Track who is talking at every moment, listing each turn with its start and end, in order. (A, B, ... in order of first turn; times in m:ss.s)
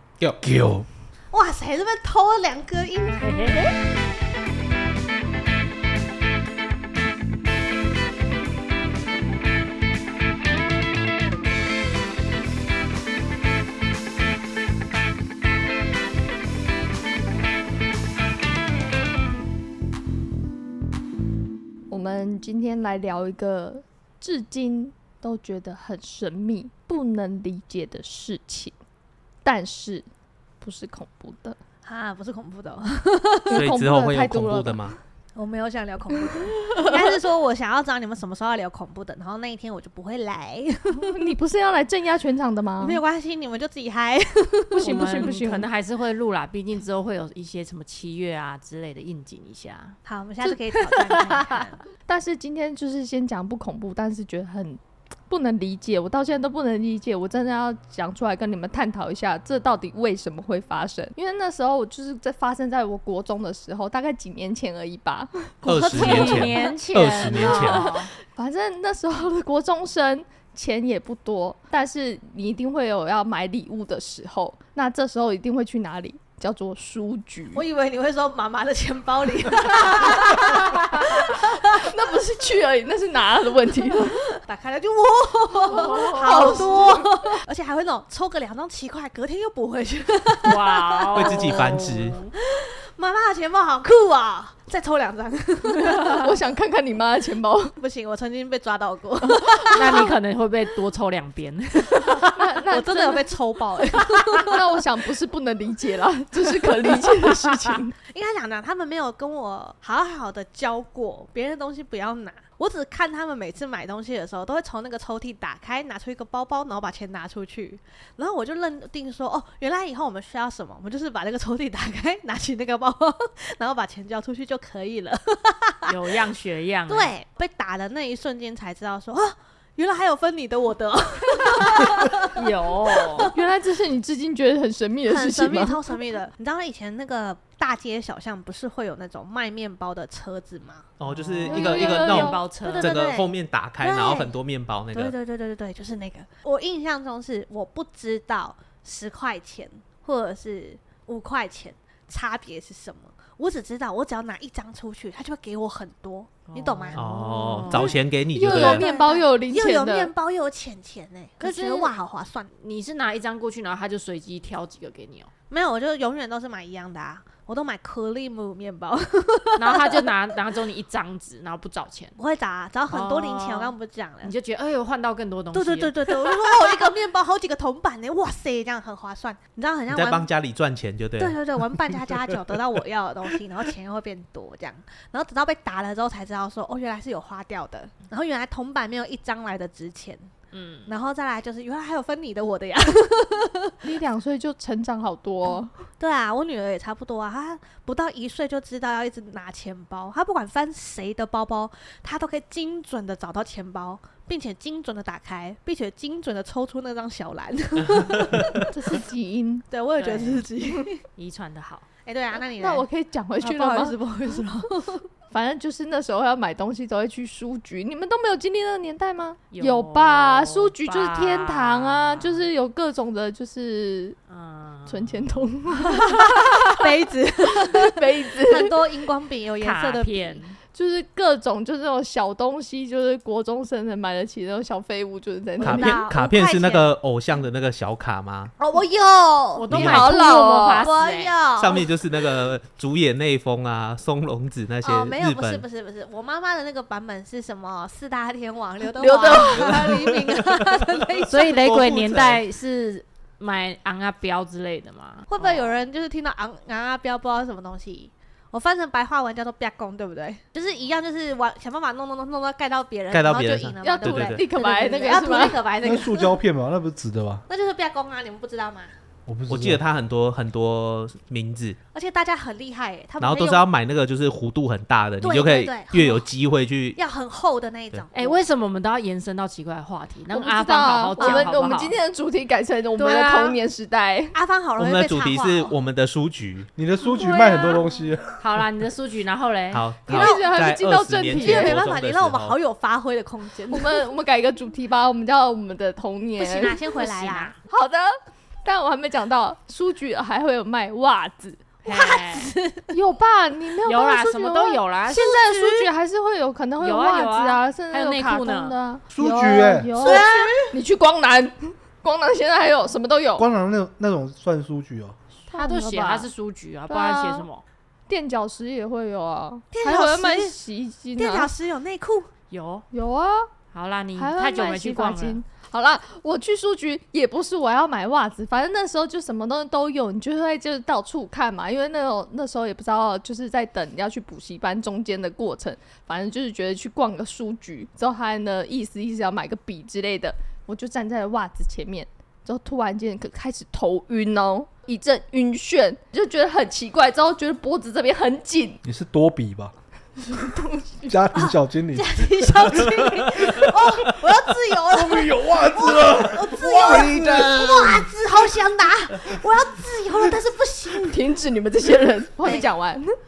0:00.4-0:00.8 A
0:01.3-0:03.7 B
0:03.2-0:03.7 C
0:21.9-0:28.7 D
0:29.4-0:30.0 D
0:30.6-0:31.6 D
0:31.8-0:33.7 B
0:33.5-0:35.0 D
0:33.5-0:35.0 E
0:35.4-0:41.2 B
0:40.9-0:43.0 D
0:42.8-0:45.3 B
0:44.7-0:50.0 C
0:44.8-0:45.7 D
0:50.0-0:51.8 B
0:50.4-0:51.5 D
0:52.0-1:06.7 D
1:05.6-1:07.9 E
1:05.6-1:08.1 C
1:07.3-1:17.6 D
1:17.5-1:21.9 B
1:21.5-1:24.2 D
1:24.3-1:31.8 B
1:25.7-1:26.6 C
1:25.8-1:27.2 D
1:30.4-1:32.3 C
1:31.1-1:32.2 E
1:32.4-1:36.3 B
1:35.9-1:37.7 D
1:37.8-1:40.1 B
1:39.7-1:42.2 C
1:42.1-1:44.6 B
1:42.3-1:43.3 D
1:44.4-1:47.9 D
1:48.1-2:06.0 B
2:05.9-2:07.1 C
2:06.9-2:13.4 B
2:11.8-2:13.3 C
2:13.3-2:16.0 D
2:15.1-2:20.9 B
2:21.0-2:25.1 E
2:21.1-2:22.9 C
2:21.4-2:22.4 D
2:22.5-2:24.3 B
2:24.9-2:42.5 B
2:36.5-2:38.0 C
2:36.9-2:38.9 E
2:38.3-2:40.1 D
2:41.4-2:41.9 C
2:42.6-2:45.3 C
2:45.5-2:50.1 B
2:49.6-2:52.2 C
2:52.2-2:54.3 B
2:52.9-2:56.4 C
2:55.5-3:00.3 B
2:59.9-3:01.9 E
3:01.2-3:10.3 B
3:10.5-3:10.9 C
3:10.9-3:13.7 B
3:13.8-3:15.7 D
3:16.0-3:28.7 B
3:27.9-3:28.5 E
3:28.7-3:29.7 D
3:29.7-3:31.0 B
3:30.0-3:30.5 C
3:31.2-3:31.9 C
3:32.0-3:32.8 B
3:32.4-3:34.0 D
3:33.4-3:35.1 B
3:35.3-3:44.2 D
3:39.5-3:42.5 C
3:44.3-3:45.4 C
3:44.9-3:46.8 D
3:45.9-3:50.4 B
3:47.6-3:48.8 D
3:49.6-3:50.6 C
3:50.7-3:56.0 D
3:55.6-3:58.5 E
3:55.6-3:56.9 B
3:58.6-4:00.2 B
3:59.5-4:01.4 C
3:59.7-4:00.1 E
3:59.7-4:00.9 D
4:00.8-4:01.9 B
4:01.6-4:05.6 E
4:04.8-4:12.2 B
4:08.8-4:10.0 D
4:09.5-4:10.1 E
4:11.3-4:15.8 C
4:11.8-4:12.4 E
4:15.3-4:26.4 B
4:23.1-4:24.5 E
4:23.8-4:25.6 D
4:25.8-4:27.4 A
4:27.5-4:28.9 B
4:29.3-4:29.8 A
4:29.5-4:31.8 E
4:31.9-4:33.7 B
4:33.2-4:37.0 E
4:35.2-4:36.2 B
4:37.0-4:38.4 B
4:38.1-4:42.0 C
4:40.3-4:44.3 D
4:41.2-4:41.5 B
4:43.0-4:43.6 C
4:44.3-4:45.7 B
4:44.8-4:46.7 E
4:46.8-4:48.4 A
4:47.2-4:48.0 B
4:48.4-4:49.9 C
4:49.7-4:52.6 E
4:50.1-4:51.8 D
4:50.1-4:50.5 B
4:51.3-4:54.0 B
4:53.7-4:56.8 D
4:56.4-4:57.6 B
4:56.9-4:57.6 C
4:57.7-5:01.6 D
5:01.8-5:02.5 C
5:01.8-5:02.9 B
5:02.9-5:13.5 D
5:03.8-5:05.4 C
5:05.1-5:05.9 B
5:06.8-5:08.7 C
5:09.1-5:10.0 A
5:10.0-5:10.8 B
5:13.4-5:15.2 A
5:15.5-5:16.3 D
5:15.5-5:17.6 C
5:16.9-5:17.4 D
5:18.1-5:21.5 D
5:19.7-5:20.5 B
5:21.2-5:22.3 B
5:22.5-5:22.8 C
5:22.9-5:23.5 D
5:23.7-5:25.4 C
5:24.2-5:48.8 D
5:48.8-5:49.7 A
5:50.2-5:51.2 D
5:51.1-5:52.9 A
5:51.3-6:01.2 B
5:54.9-5:58.1 A
6:01.1-6:03.0 D